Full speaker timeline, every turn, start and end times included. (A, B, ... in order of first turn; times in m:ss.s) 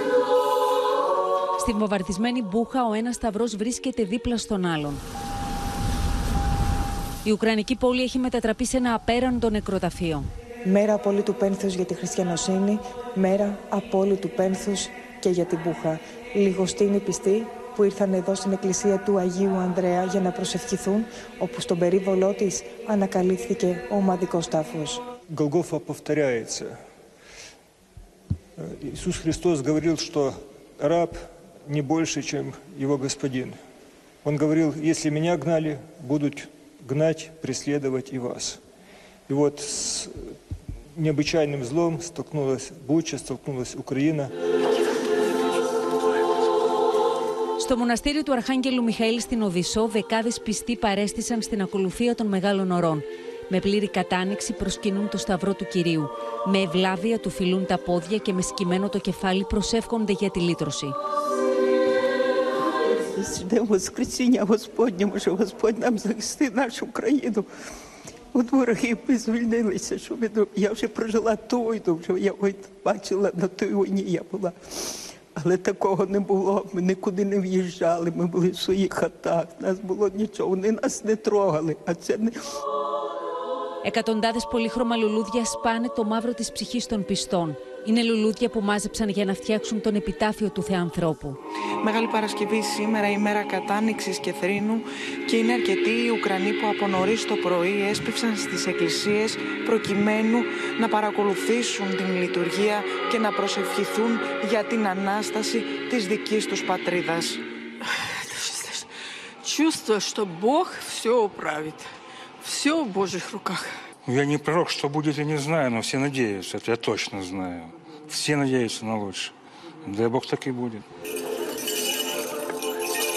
0:01.6-0:05.0 A
0:07.2-0:10.3 A
0:10.6-0:25.0 B
0:25.3-0:26.7 C
0:28.6-0:31.2 C
0:31.7-0:33.6 C
0:34.2-0:38.6 C
0:39.3-0:40.3 C
0:41.0-0:44.3 C
0:47.6-1:00.9 A
1:03.1-1:07.5 D
1:08.3-1:14.5 D
1:15.3-1:22.3 D
1:23.8-1:31.4 A
1:31.8-1:47.4 E
1:47.8-1:48.9 F
1:49.4-1:51.9 F
1:52.4-1:53.8 F
1:54.0-1:59.3 G
1:59.8-2:00.8 G